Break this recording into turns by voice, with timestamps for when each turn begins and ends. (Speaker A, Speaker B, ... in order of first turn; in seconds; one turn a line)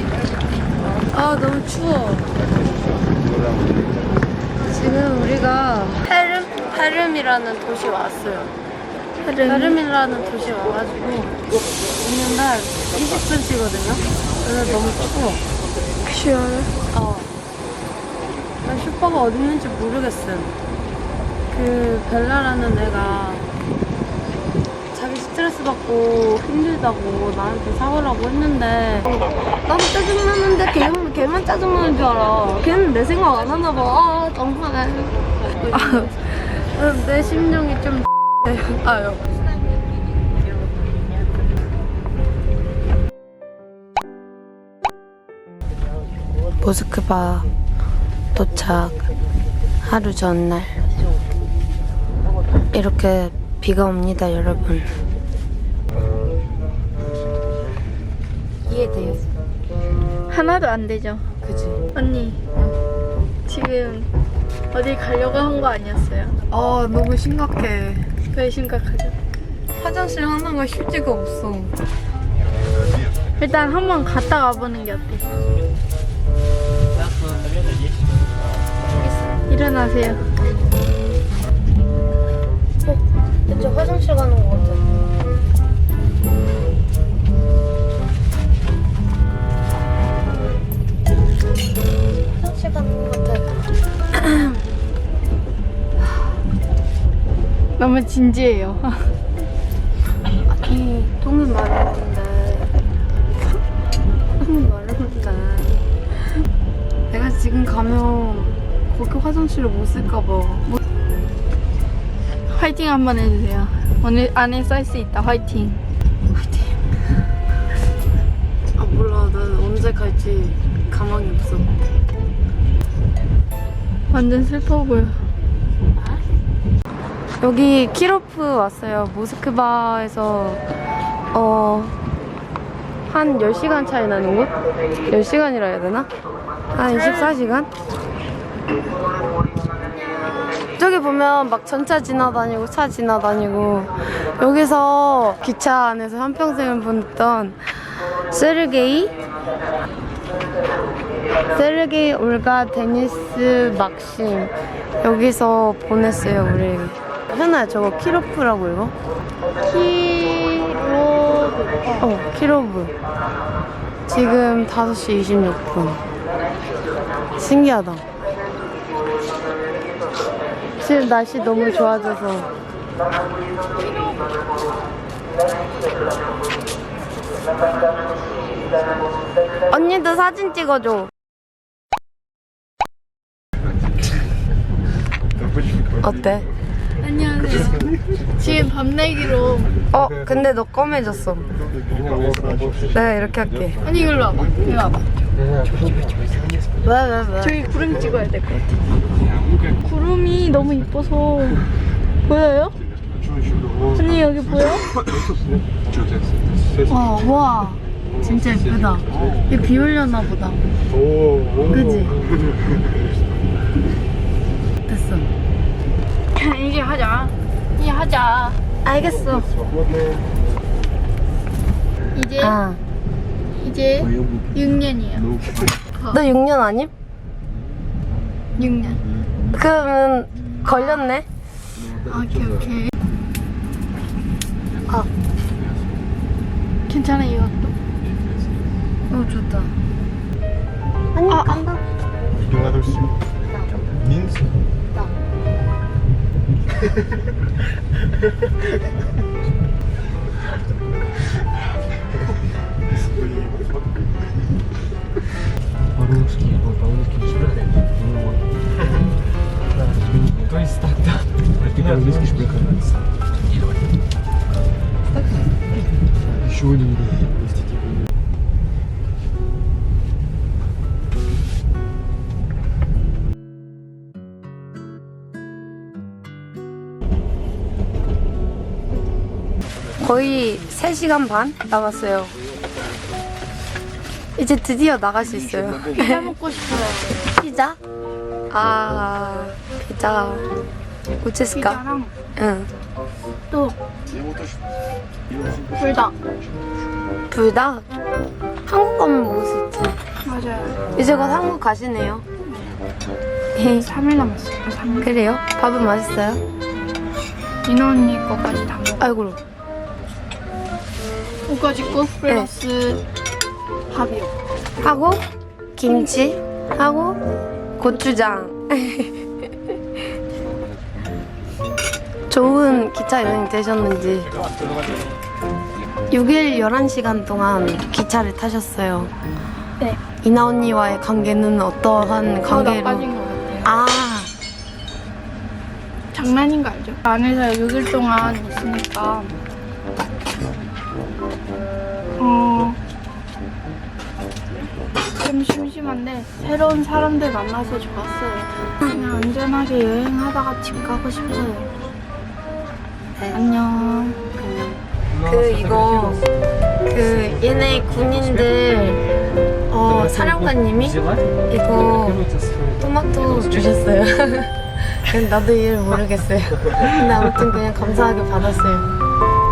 Speaker A: 0.9-2.3
Speaker A: 4.7-8.5
Speaker B: 9.2-9.8
Speaker A: 9.5-11.3
Speaker A: 12.0-15.4
Speaker B: 16.1-16.7
Speaker A: 16.9-17.3
Speaker A: 18.6-20.6
Speaker A: 21.5-23.5
Speaker A: 24.9-39.2
Speaker B: 35.7-36.1
Speaker A: 46.6-47.5
Speaker A: 48.3-49.0
Speaker A: 49.8-50.8
Speaker A: 52.7-55.0
Speaker A: 58.6-59.4
Speaker B: 60.3-61.3
Speaker A: 61.4-61.8
Speaker B: 61.9-62.4
Speaker B: 63.5-64.1
Speaker B: 64.7-66.4
Speaker A: 66.5-68.1
Speaker B: 68.3-69.1
Speaker A: 69.8-71.8
Speaker B: 73.4-75.2
Speaker B: 79.5-80.3
Speaker A: 82.8-85.0
Speaker A: 92.3-94.6
Speaker B: 97.8-99.1
Speaker A: 100.4-102.7
Speaker A: 104.4-106.4
Speaker A: 107.1-110.7
Speaker B: 112.5-115.8
Speaker A: 116.3-117.0
Speaker A: 118.8-121.7
Speaker B: 124.1-125.2
Speaker A: 127.4-130.6
Speaker A: 131.3-132.0
Speaker A: 133.1-134.5
Speaker A: 135.1-136.1
Speaker A: 136.7-137.7
Speaker A: 140.8-149.2
Speaker A: 151.5-158.9
Speaker B: 159.6-162.1
Speaker A: 162.0-162.9
Speaker A: 164.1-166.0
Speaker A: 167.4-168.0
Speaker A: 170.8-172.5
Speaker A: 179.7-181.1
Speaker A: 186.0-186.5
Speaker B: 187.0-189.7
Speaker A: 189.9-191.5
Speaker A: 192.9-193.8
Speaker B: 193.8-195.1
Speaker C: 195.5-196.6
Speaker A: 196.8-197.6
Speaker B: 197.4-198.8
Speaker B: 199.8-201.6
Speaker B: 202.2-202.8
Speaker B: 203.9-204.9
Speaker A: 206.9-210.6
Speaker B: 207.0-207.8
Speaker A: 211.7-212.2
Speaker A: 214.9-215.3
Speaker B: 216.3-218.6
Speaker A: 218.8-219.5
Speaker B: 222.1-222.6
Speaker A: 222.4-222.8
Speaker B: 223.6-225.3
Speaker C: 225.4-225.7
Speaker A: 226.1-226.9
Speaker B: 228.6-229.0
Speaker A: 229.5-231.3
Speaker B: 232.0-232.9
Speaker B: 236.9-237.7
Speaker A: 239.1-239.7
Speaker A: 241.1-241.8
Speaker B: 241.3-241.7
Speaker A: 243.5-243.8
Speaker C: 256.0-258.4
Speaker C: 259.8-263.0
Speaker C: 266.4-267.6
Speaker A: 280.0-282.4
Speaker A: 284.4-286.3
Speaker B: 285.9-287.4
Speaker A: 287.4-287.8
Speaker A: 288.5-290.5
Speaker A: 291.2-291.8
Speaker B: 291.5-292.1
Speaker A: 292.4-292.7
Speaker B: 293.5-293.8
Speaker B: 295.7-296.2
Speaker A: 297.3-297.9
Speaker A: 298.7-300.0
Speaker B: 300.2-300.8
Speaker A: 300.9-302.2
Speaker A: 303.6-303.9
Speaker B: 303.6-305.1
Speaker A: 305.0-306.4
Speaker B: 307.6-309.1
Speaker A: 309.0-309.4
Speaker B: 311.5-313.0
Speaker B: 313.9-314.3
Speaker A: 314.8-315.3
Speaker A: 315.8-317.2
Speaker A: 317.8-319.3
Speaker A: 322.3-324.4
Speaker A: 326.1-329.1
Speaker A: 330.2-333.1
Speaker B: 332.5-333.8
Speaker A: 333.6-334.3
Speaker B: 336.1-339.3
Speaker B: 342.2-342.8
Speaker B: 345.1-351.7
Speaker A: 353.2-353.4
Speaker B: 353.3-354.2
Speaker A: 354.4-356.2
Speaker C: 355.1-356.2
Speaker A: 356.9-359.0
Speaker C: 357.6-358.1
Speaker A: 359.7-361.0
Speaker C: 360.1-361.3
Speaker A: 361.5-362.2
Speaker C: 362.2-362.8
Speaker A: 362.8-368.9